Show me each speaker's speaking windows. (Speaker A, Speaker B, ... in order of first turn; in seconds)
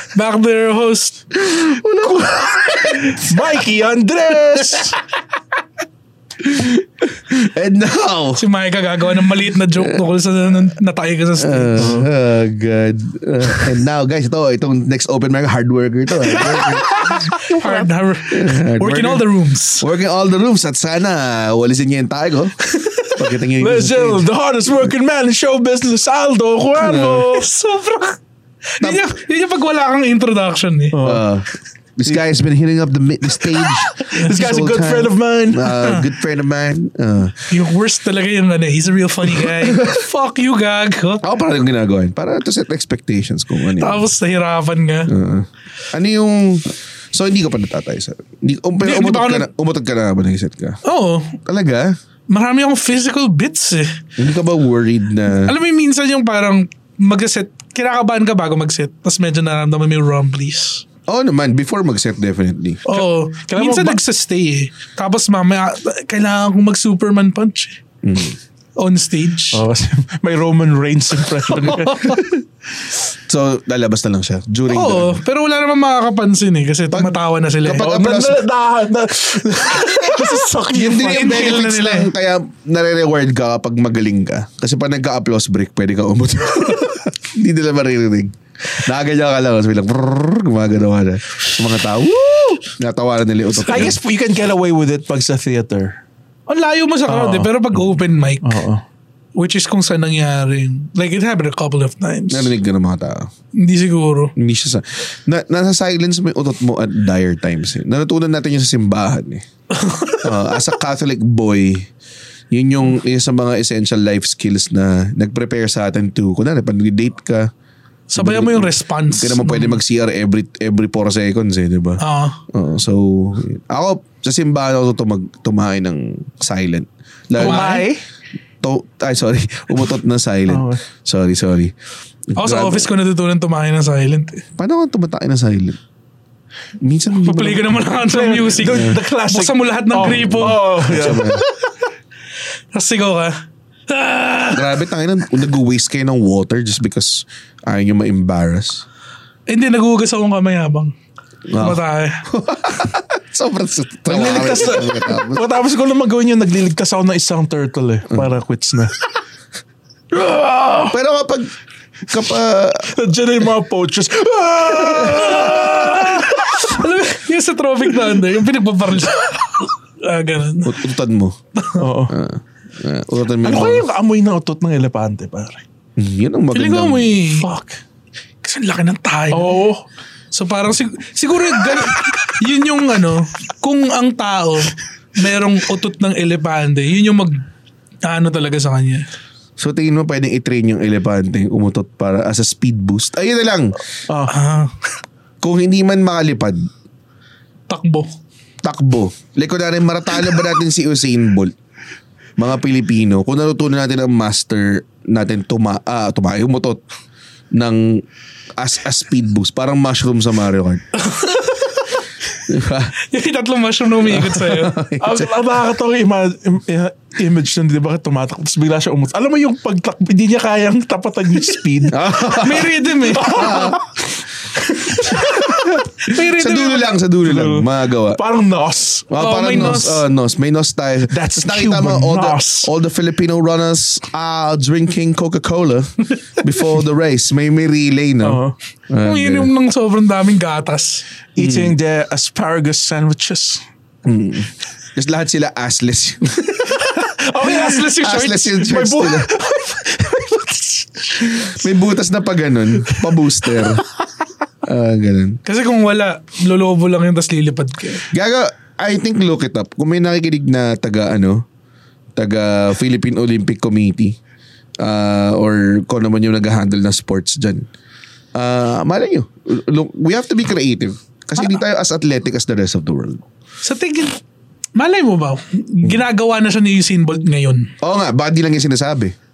Speaker A: 0.1-1.2, 8.4-11.9, 17.5-19.9, 27.3-28.2, 28.8-31.0, 37.5-41.2, 43.8-45.1, 48.8-49.5, 50.9-51.4, 52.3-54.0, 55.4-60.8, 62.9-67.8, 68.8-69.6, 71.6-72.2, 74.7-77.9, 80.0-80.3, 80.9-82.1, 96.5-98.6, 99.4-102.5, 103.6-104.3, 109.8-110.2, 118.1-119.8, 122.0-122.4, 127.4-127.9, 132.4-134.4, 137.2-141.7, 142.7-143.4, 143.9-144.7, 149.5-150.9, 151.6-152.2, 165.1-170.8, 176.5-177.5, 178.4-179.6, 180.3-187.4, 188.1-189.1, 194.3-194.7, 197.7-198.1, 211.0-211.9, 213.1-214.8, 222.2-223.8, 224.9-225.5, 226.0-227.0, 229.2-230.0, 239.0-241.0, 247.4-248.6, 255.5-258.1, 273.6-274.2, 274.8-277.7
Speaker B: 1.4-3.2, 6.4-8.4, 9.7-10.0, 11.4-16.9, 18.3-19.3, 19.8-22.6, 23.2-24.3, 26.8-27.3, 28.8-29.1, 31.0-37.5, 39.5-40.0, 41.2-44.1, 45.1-50.8, 51.5-52.0, 54.2-55.5, 61.1-62.8, 68.0-68.4, 73.3-75.2, 76.9-78.5, 80.7-94.0, 102.3-103.3, 104.4-109.5, 110.2-111.9, 112.5-117.5, 118.2-127.9, 128.6-131.7, 132.3-132.9, 134.6-135.8, 136.8-137.8, 138.7-139.0, 140.3-141.4, 144.5-148.8, 151.5-155.4, 160.9-161.5, 162.1-162.9, 170.6-171.4, 172.1-173.9, 176.0-177.2, 189.6-193.8, 195.4-196.7, 198.6-201.5, 202.4-206.8, 207.5-208.0, 208.6-210.8, 212.5-213.0, 214.1-215.3, 221.9-223.8, 225.4-228.2, 229.1-239.5, 241.4-241.8, 244.1-246.7, 248.0-249.3, 251.4-253.8, 254.6-255.4, 258.1-261.4, 262.2-264.2, 264.8-267.7, 268.4-273.2, 277.8-279.1
Speaker C: 3.1-5.0, 11.8-12.1, 16.3-17.9, 23.6-27.5, 30.9-31.2, 34.0-35.8, 62.9-64.0, 69.5-72.2, 77.7-81.7, 93.6-96.0, 97.1-97.5, 98.4-98.8, 127.4-128.0, 130.5-130.8, 138.0-141.3, 154.1-159.0, 160.1-160.9, 162.9-166.6, 171.8-172.2, 173.4-175.6, 177.4-177.8, 179.3-179.9, 194.1-194.3, 215.0-222.0, 223.2-223.8, 224.9-225.4, 227.2-229.8, 231.1-232.7, 238.2-238.6, 241.3-243.6, 246.8-247.9, 248.5-251.5